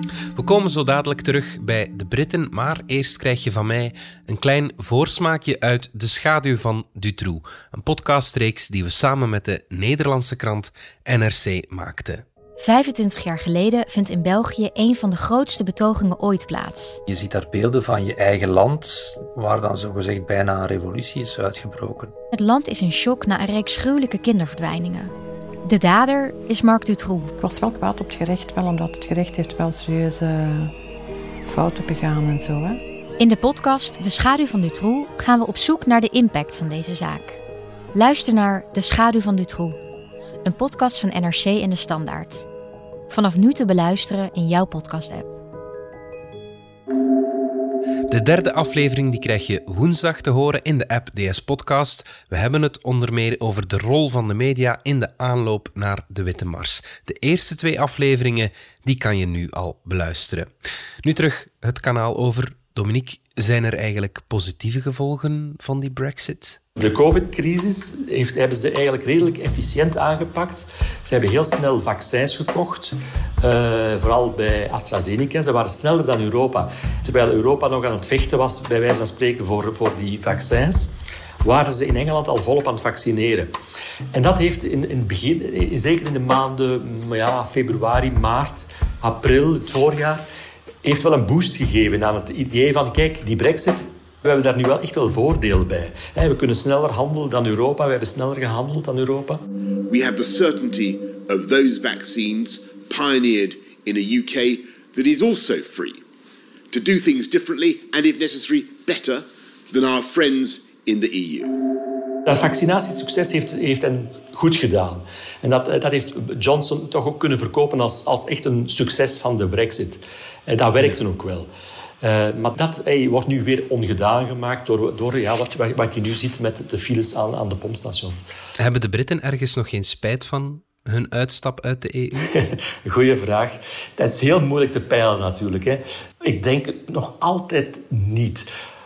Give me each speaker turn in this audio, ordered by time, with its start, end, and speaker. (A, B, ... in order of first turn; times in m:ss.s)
0:00.4-0:12.2 A
0:12.6-0:17.0 B
0:17.1-0:22.1 C
0:22.3-0:25.1 B
0:25.6-0:27.3 B
0:27.4-0:30.7 D
0:31.4-0:32.8 D
0:33.2-0:37.4 B
0:37.9-0:39.8 B
0:40.4-0:42.5 B
0:43.1-0:45.3 B
0:48.1-1:00.5 A
1:01.0-1:06.6 A
1:06.8-1:23.5 E
1:24.1-1:30.2 E
1:30.8-1:39.4 E
1:39.9-1:46.0 F
1:46.7-1:51.6 F
1:52.2-2:01.5 E
2:02.0-2:08.2 E
2:08.6-2:12.3 A
2:12.3-2:18.5 E